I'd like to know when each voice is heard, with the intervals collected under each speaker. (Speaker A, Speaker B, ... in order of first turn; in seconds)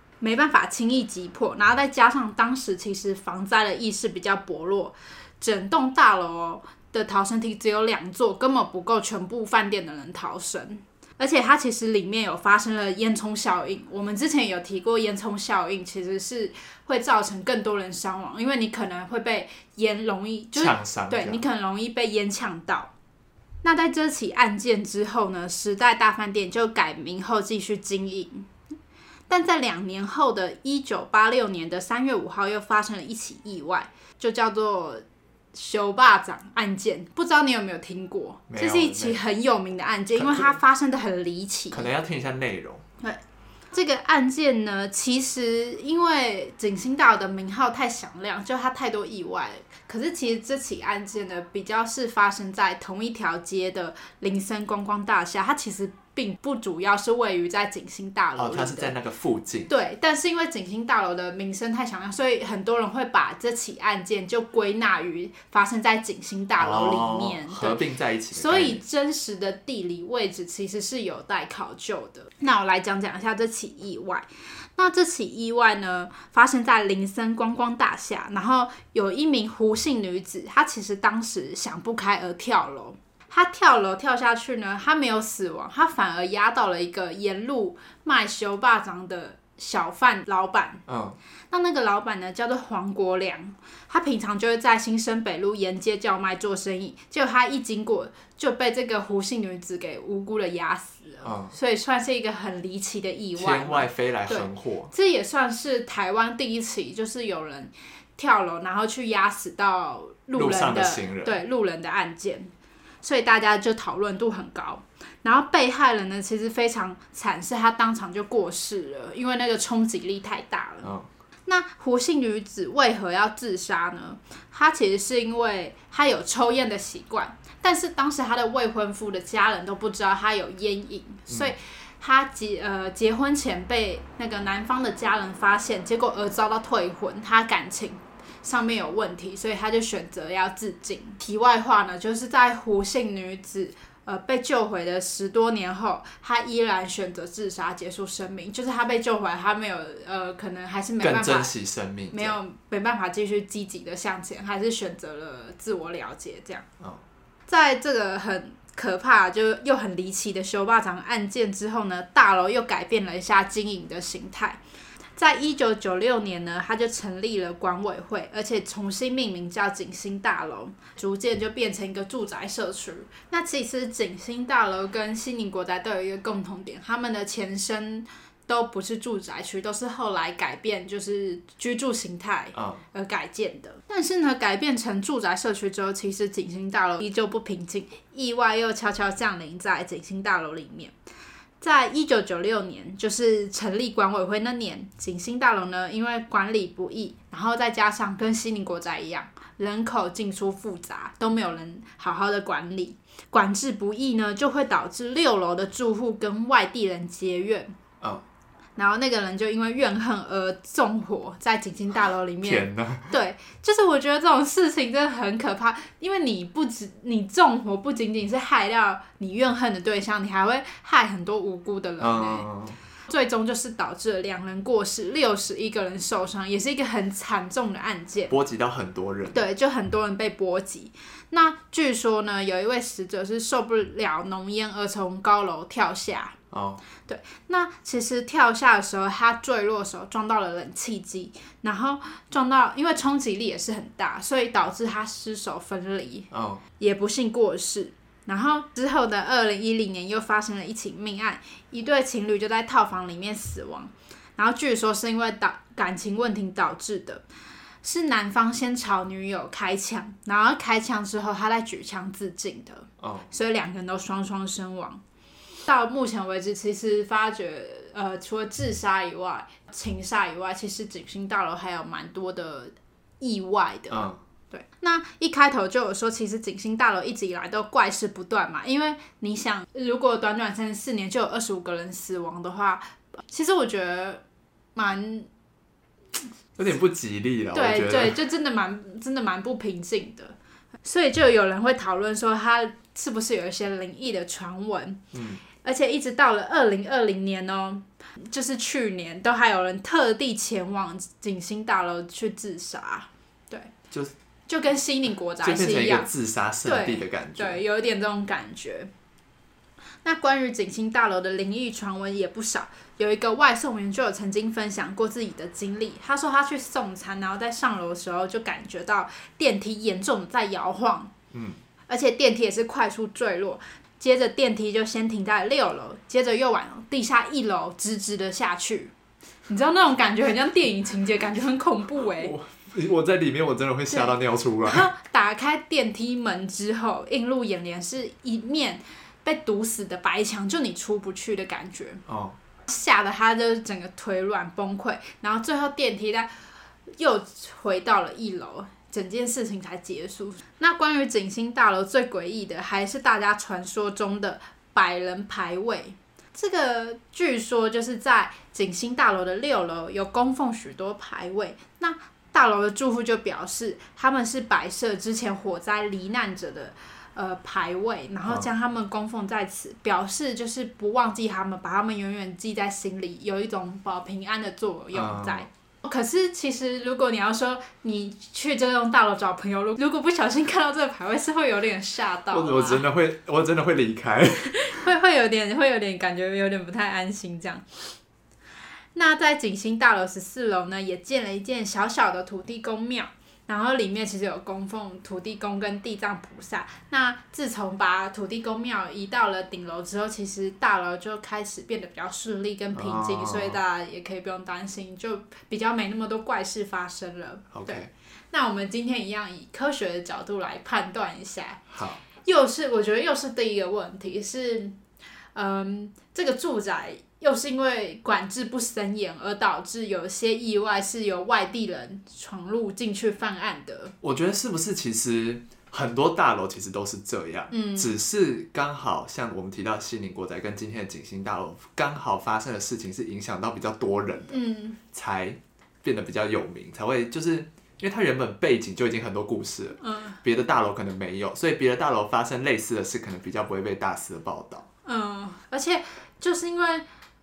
Speaker A: 0.2-22.9, 23.6-28.5, 29.3-41.9, 43.7-58.9, 59.7-67.8, 68.3-90.8, 91.5-112.5, 113.0-120.9, 121.5-151.5, 152.1-156.7, 157.5-164.6, 165.2-190.9, 191.6-207.7, 208.8-222.5, 223.1-228.3, 229.3-236.3, 237.1-257.2, 257.8-265.0, 265.6-284.2, 284.7-285.3, 287.5-295.0, 295.6-303.7, 304.5-306.1, 306.6-308.9, 310.0-321.1, 321.9-328.9, 329.5-332.3, 334.6-342.0, 342.7-346.3, 347.0-382.9, 384.5-387.8, 388.9-411.6, 412.2-414.8, 415.3-423.9, 427.5-427.9, 434.3-434.8, 439.8-440.2, 444.8-446.8
Speaker B: 20.5-21.4, 38.5-39.2, 40.1-40.6, 41.7-42.8, 58.4-59.7, 66.6-68.8, 90.9-91.2, 101.2-101.5, 103.3-104.9, 110.3-111.4, 120.8-121.1, 131.3-131.5, 151.0-152.4, 182.5-182.8, 212.4-213.1, 222.0-222.8, 228.3-229.4, 236.5-236.8, 246.3-246.6, 263.0-263.2, 273.9-274.2, 286.6-288.1, 295.1-295.4, 305.4-307.6, 321.3-321.6, 332.1-334.9, 342.1-342.4, 374.9-375.5, 382.3-384.8, 402.7-403.6, 407.5-407.9, 411.7-412.0, 424.0-434.4, 434.9-444.6